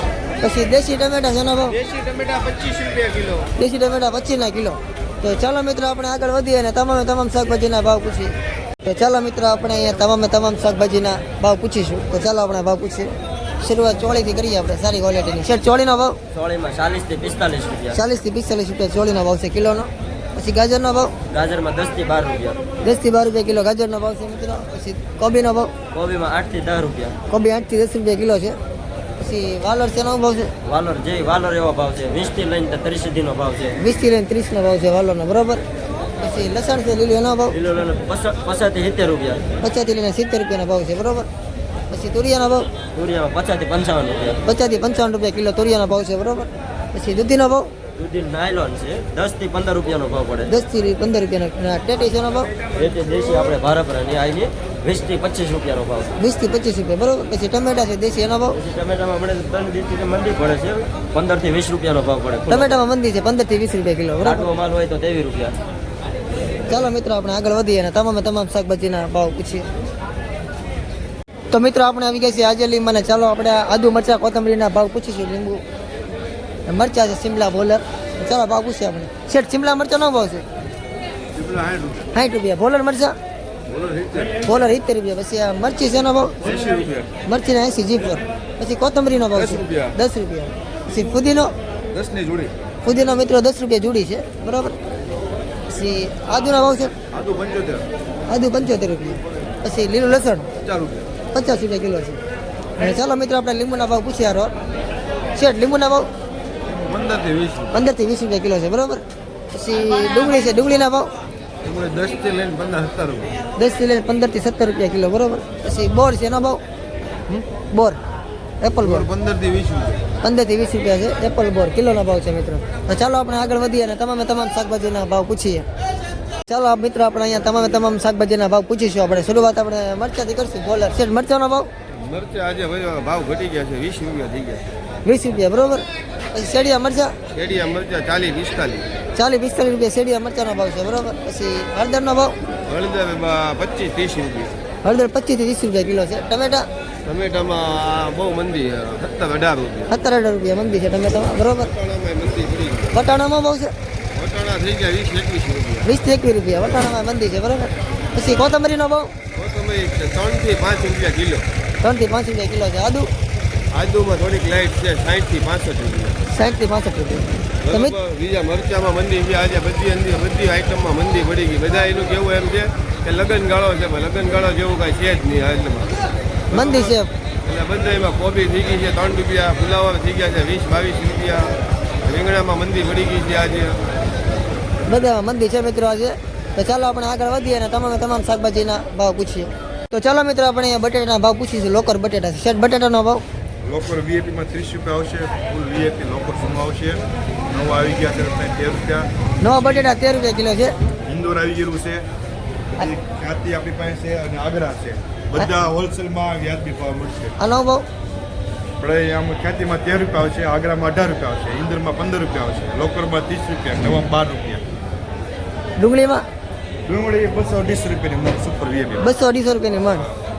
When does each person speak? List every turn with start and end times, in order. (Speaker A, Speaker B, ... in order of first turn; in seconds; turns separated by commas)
Speaker A: 0.4-1.8, Speaker B: 1.8-3.5, Speaker A: 3.5-16.2, Speaker B: 16.3-18.0, Speaker A: 17.9-21.1, Speaker B: 21.3-22.6, Speaker A: 22.8-25.7, Speaker B: 25.9-27.1, Speaker A: 27.3-28.6, Speaker A: 29.2-30.5, Speaker B: 30.6-33.8, Speaker A: 33.8-35.6, Speaker A: 36.2-37.5, Speaker B: 37.5-39.4, Speaker A: 39.6-41.3, Speaker A: 41.9-42.7, Speaker B: 42.9-44.4, Speaker A: 44.4-47.7, Speaker B: 48.0-50.5, Speaker A: 50.5-52.5, Speaker B: 52.7-56.1, Speaker A: 56.2-58.6, Speaker B: 58.5-62.8, Speaker A: 62.5-64.5, Speaker B: 64.2-65.6, Speaker A: 66.7-69.7, Speaker A: 71.5-75.6, Speaker A: 76.7-80.4, Speaker A: 82.1-83.2, Speaker A: 84.4-86.4, Speaker A: 87.2-91.5, Speaker A: 92.8-94.8, Speaker A: 95.7-96.9, Speaker A: 98.3-100.5, Speaker C: 100.7-101.0, Speaker A: 101.3-102.2, Speaker A: 102.8-104.5, Speaker A: 105.3-106.1, Speaker C: 106.9-107.7, Speaker A: 107.7-111.1, Speaker C: 111.6-113.3, Speaker A: 113.6-116.6, Speaker A: 117.7-118.0, Speaker A: 118.6-119.1, Speaker C: 119.1-120.0, Speaker A: 120.2-125.7, Speaker A: 126.5-131.7, Speaker D: 131.9-134.6, Speaker A: 135.0-137.1, Speaker D: 137.3-138.8, Speaker A: 139.2-142.3, Speaker D: 142.7-144.5, Speaker A: 144.8-146.7, Speaker D: 147.0-149.9, Speaker A: 149.9-151.7, Speaker D: 151.7-152.9, Speaker A: 152.9-153.7, Speaker D: 154.1-155.8, Speaker A: 155.8-159.1, Speaker D: 159.3-161.4, Speaker A: 161.8-163.1, Speaker D: 163.7-166.2, Speaker A: 166.3-167.9, Speaker D: 167.8-175.9, Speaker A: 176.5-177.1, Speaker D: 177.4-181.5, Speaker D: 182.1-183.7, Speaker A: 184.8-193.2, Speaker E: 193.6-199.1, Speaker A: 199.4-200.8, Speaker E: 201.1-202.1, Speaker E: 202.8-207.3, Speaker A: 207.4-207.9, Speaker E: 208.8-214.6, Speaker A: 215.8-216.2, Speaker E: 216.9-219.1, Speaker A: 219.0-220.1